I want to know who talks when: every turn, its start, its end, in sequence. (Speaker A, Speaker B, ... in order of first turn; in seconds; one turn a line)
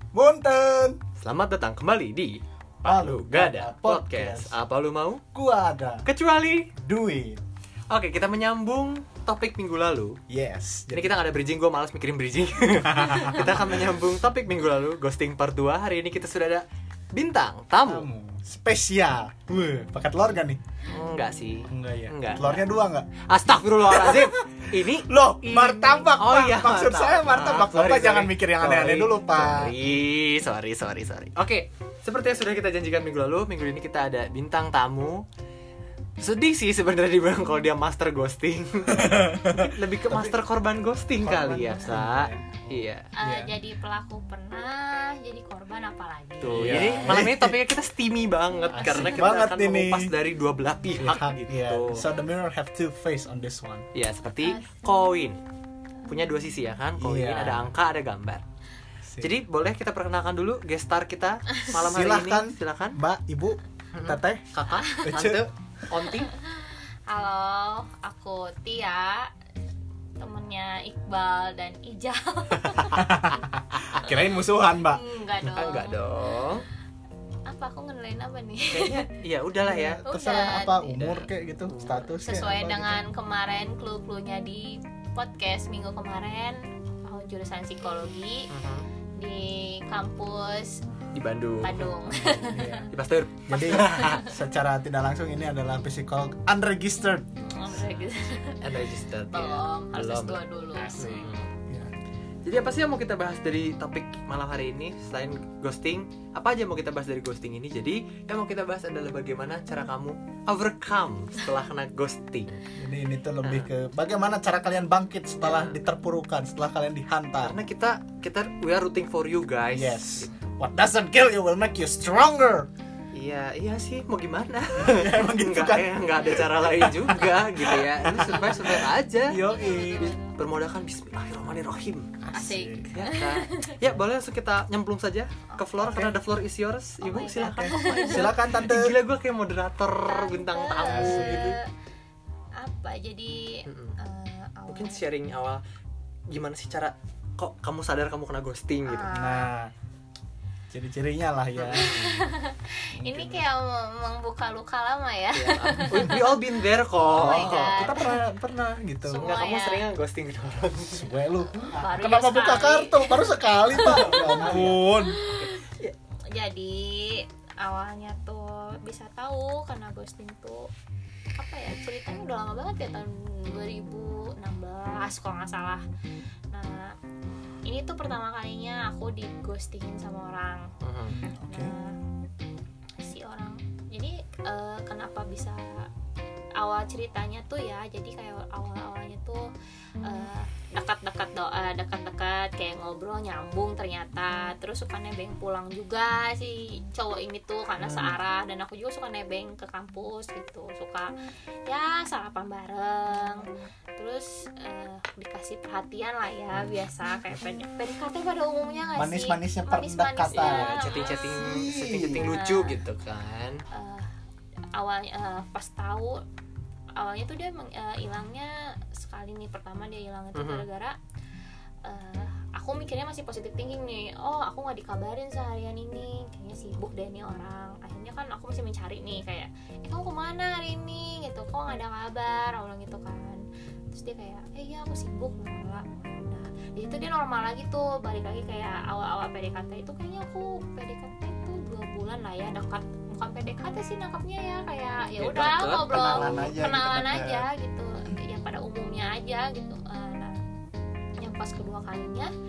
Speaker A: 0.1-1.0
Speaker B: 1.2-5.2
Speaker A: 2.8-4.5
Speaker A: 5.3-6.0
Speaker B: 6.1-6.7
Speaker A: 6.8-7.4
Speaker B: 7.9-10.2
Speaker A: 10.3-11.2
Speaker B: 10.9-18.1
Speaker A: 12.9-13.8
Speaker A: 17.8-20.6
Speaker B: 20.9-22.6
Speaker A: 21.7-23.1
Speaker B: 23.2-35.2
Speaker A: 23.9-29.7
Speaker B: 36.2-43.1
Speaker A: 38.9-40.4
Speaker A: 41.2-43.5
Speaker C: 43.2-47.1
Speaker B: 46.4-52.0
Speaker A: 46.5-47.6
Speaker C: 48.7-49.4
Speaker A: 48.8-50.1
Speaker A: 51.0-53.9
Speaker B: 53.9-55.4
Speaker B: 56.1-58.4
Speaker A: 57.0-57.7
Speaker A: 59.0-59.4
Speaker B: 59.2-63.0
Speaker A: 61.7-64.5
Speaker B: 63.9-66.3
Speaker C: 64.8-65.1
Speaker A: 65.0-65.5
Speaker C: 66.0-69.3
Speaker C: 70.2-73.4
Speaker A: 72.9-75.0
Speaker B: 73.8-74.1
Speaker C: 73.9-76.0
Speaker B: 75.5-76.7
Speaker C: 77.5-79.0
Speaker B: 78.7-80.0
Speaker A: 79.6-83.0
Speaker C: 80.0-81.1
Speaker B: 81.8-82.1
Speaker C: 82.2-88.5
Speaker B: 88.5-88.9
Speaker C: 89.2-90.8
Speaker B: 91.1-91.9
Speaker C: 91.6-92.9
Speaker A: 92.1-92.9
Speaker B: 92.9-94.3
Speaker A: 93.5-97.3
Speaker C: 93.8-94.3
Speaker C: 97.4-101.5
Speaker B: 98.6-101.5
Speaker A: 101.0-101.9
Speaker B: 102.4-112.6
Speaker A: 112.8-117.6
Speaker B: 113.4-113.7
Speaker B: 115.4-115.8
Speaker B: 117.4-120.3
Speaker A: 119.7-122.7
Speaker B: 123.1-129.4
Speaker A: 124.7-130.1
Speaker C: 129.4-130.4
Speaker B: 130.3-132.2
Speaker A: 132.2-132.9
Speaker C: 132.3-133.8
Speaker B: 132.9-141.6
Speaker C: 135.5-135.9
Speaker A: 135.8-136.2
Speaker C: 137.0-138.3
Speaker A: 137.3-138.9
Speaker C: 140.1-141.7
Speaker A: 140.9-141.6
Speaker C: 142.6-145.0
Speaker B: 143.7-144.0
Speaker B: 144.7-145.6
Speaker B: 146.3-149.1
Speaker C: 148.8-149.5
Speaker A: 149.1-149.7
Speaker A: 150.7-151.9
Speaker B: 151.6-152.2
Speaker C: 151.8-156.3
Speaker A: 153.0-153.4
Speaker B: 155.3-157.9
Speaker C: 157.1-158.2
Speaker A: 157.2-159.4
Speaker C: 159.0-159.9
Speaker B: 159.2-161.1
Speaker A: 160.8-165.2
Speaker C: 161.5-165.7
Speaker B: 163.9-164.8
Speaker B: 165.4-165.9
Speaker C: 166.3-170.7
Speaker C: 171.3-175.8
Speaker C: 176.5-176.9
Speaker C: 177.6-180.7
Speaker B: 180.8-181.2
Speaker A: 181.1-181.8
Speaker C: 181.5-181.9
Speaker C: 183.0-185.9
Speaker C: 186.6-189.5
Speaker C: 190.0-201.1
Speaker B: 197.8-198.2
Speaker C: 201.7-211.4
Speaker A: 208.9-212.3
Speaker B: 210.3-213.6
Speaker C: 212.2-212.8
Speaker C: 213.7-214.1
Speaker C: 214.7-216.2
Speaker C: 216.9-221.0
Speaker B: 220.3-220.6
Speaker C: 221.8-250.4
Speaker B: 245.2-246.5
Speaker A: 245.9-247.5
Speaker C: 251.2-252.3